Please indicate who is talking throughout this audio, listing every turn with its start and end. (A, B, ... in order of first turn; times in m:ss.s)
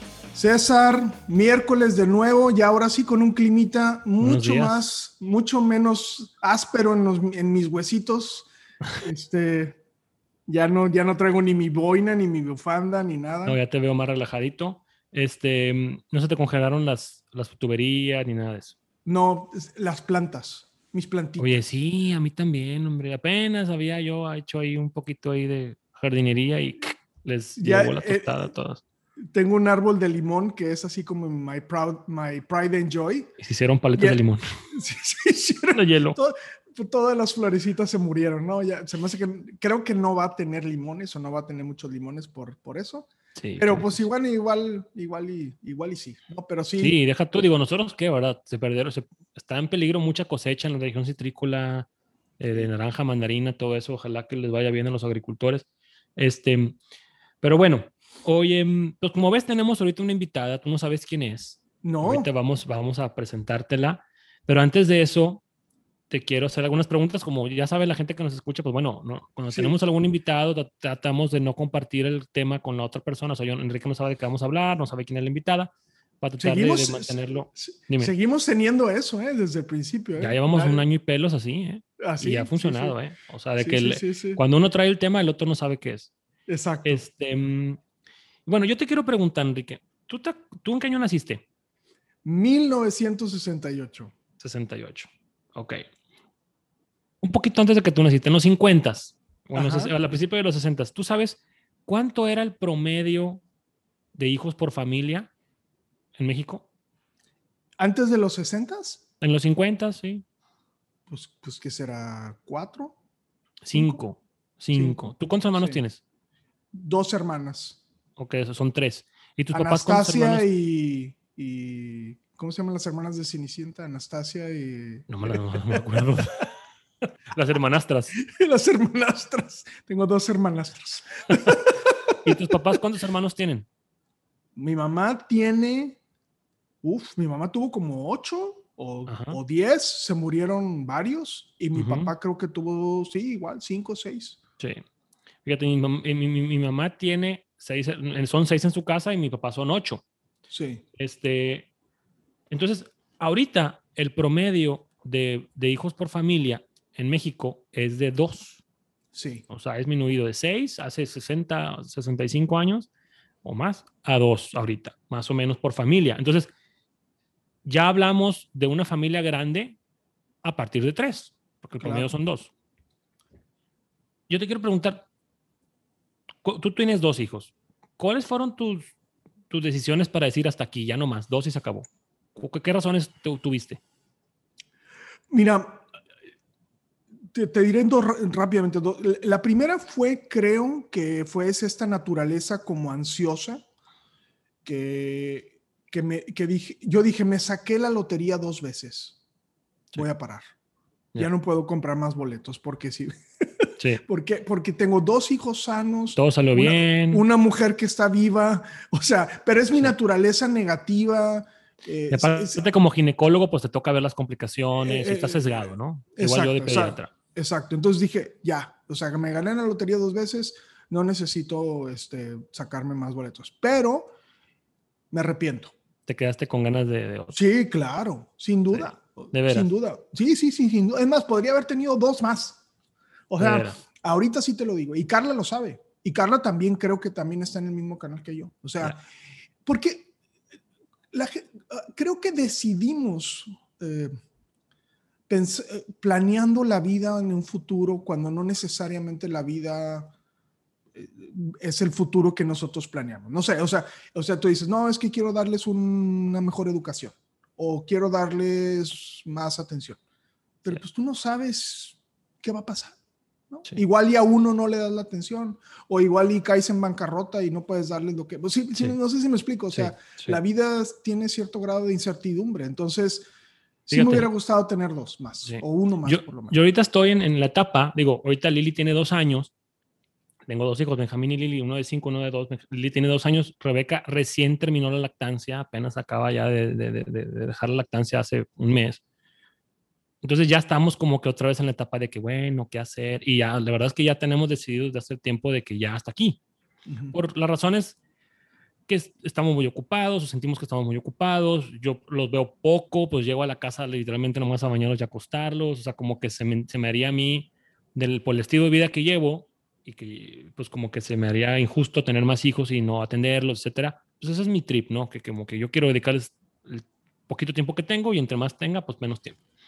0:00.4-0:08.5 A
0:04.2-0:04.8 B
0:09.0-0:09.8 A
0:10.5-0:13.6 A
0:13.5-0:18.8 B
0:19.1-0:21.6 A
0:21.4-0:28.8 B
0:27.6-0:28.4 A
0:29.3-0:33.3 A
0:33.4-0:34.4 B
0:34.0-0:47.0 A
0:35.7-0:36.2 B
0:43.4-0:44.0 B
0:46.8-0:55.6 B
0:56.2-0:56.8 B
0:57.4-1:05.4 B
1:01.8-1:02.3 A
1:06.1-1:18.1 B
1:16.4-1:20.8 A
1:20.2-1:26.1 B
1:22.0-1:23.0 A
1:23.6-1:24.4 A
1:26.5-1:27.0 A
1:26.8-1:27.8 B
1:28.5-1:31.4 B
1:32.2-1:34.1 A
1:34.4-1:35.8 B
1:37.2-1:43.4 B
1:39.6-1:39.9 A
1:44.2-1:45.3 B
1:46.2-1:46.6 B
1:47.8-1:49.0 A
1:49.2-1:50.2 B
1:51.1-1:53.0 A
1:53.6-1:56.0 B
1:53.7-1:54.0 A
1:54.7-1:55.8 A
1:56.7-1:57.8 A
1:58.2-2:00.5 B
1:59.5-2:06.2 A
2:05.1-2:06.5 B
2:07.3-2:08.2 B
2:08.2-2:12.4 A
2:12.2-2:13.7 B
2:14.6-2:16.0 A
2:16.8-2:24.4 A
2:19.1-2:19.4 B
2:21.8-2:22.1 B
2:25.4-2:30.0 B
2:30.5-2:30.8 A
2:31.0-2:31.7 B
2:32.5-2:38.6 B
2:39.1-2:39.4 A
2:39.5-2:42.9 B
2:43.4-2:46.5 B
2:47.6-2:49.8 B
2:50.4-2:52.5 B
2:51.8-2:52.1 A
2:54.3-2:55.1 B
2:56.4-2:58.9 B
2:59.5-3:03.8 B
3:05.3-3:05.8 A
3:07.3-3:13.6 A
3:14.6-3:19.2 A
3:19.9-3:20.5 A
3:21.2-3:32.7 A
3:26.2-3:27.2 B
3:32.1-3:37.1 B
3:34.8-3:44.1 A
3:45.1-3:45.7 A
3:46.1-3:47.4 B
3:47.3-3:52.6 A
3:48.7-3:49.7 B
3:53.3-3:59.0 A
3:53.4-3:53.8 B
3:59.7-4:00.1 A
4:01.1-4:04.1 A
4:05.3-4:10.1 A
4:10.9-4:20.0 A
4:20.6-4:23.0 A
4:23.5-4:33.3 A
4:29.7-4:30.4 B
4:33.9-4:36.6 A
4:33.9-4:34.3 B
4:35.4-4:39.5 B
4:40.5-4:49.0 B
4:50.2-4:56.4 B
4:56.9-4:57.2 A
4:57.1-4:58.0 B
4:58.9-5:19.4 B